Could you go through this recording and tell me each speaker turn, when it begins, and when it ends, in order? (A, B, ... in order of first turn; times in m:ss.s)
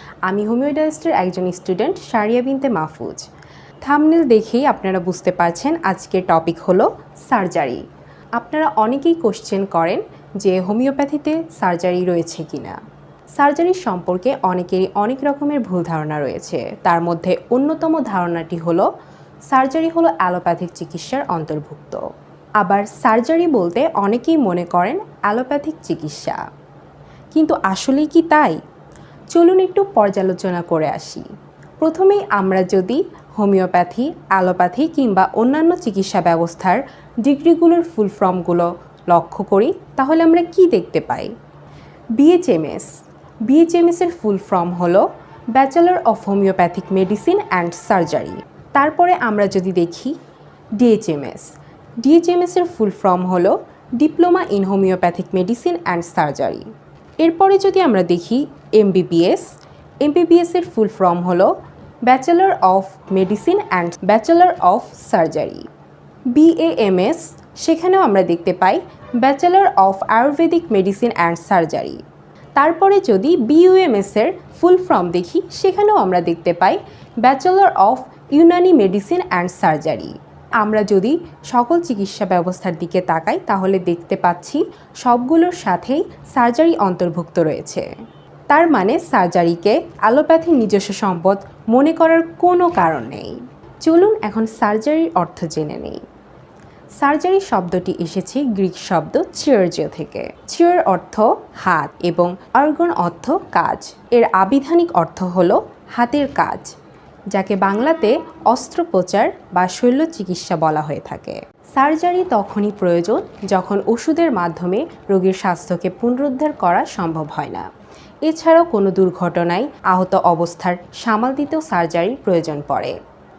0:00.3-0:03.3 A
0:03.8-0:07.8 A
0:08.4-0:12.8 A
0:13.4-0:18.9 A
0:19.5-0:22.0 A
0:22.6-0:26.4 A
0:27.3-0:28.6 A
0:29.3-0:31.3 A
0:31.8-0:41.3 A
0:42.2-0:42.9 A
0:43.5-0:50.2 A
0:50.8-0:56.7 A
0:57.2-0:59.5 A
1:00.0-1:01.5 A
1:02.1-1:05.7 A
1:06.3-1:12.0 A
1:12.6-1:27.9 A
1:28.5-1:36.0 A
1:37.0-1:46.7 A
1:47.3-1:57.7 A
1:58.3-2:03.0 A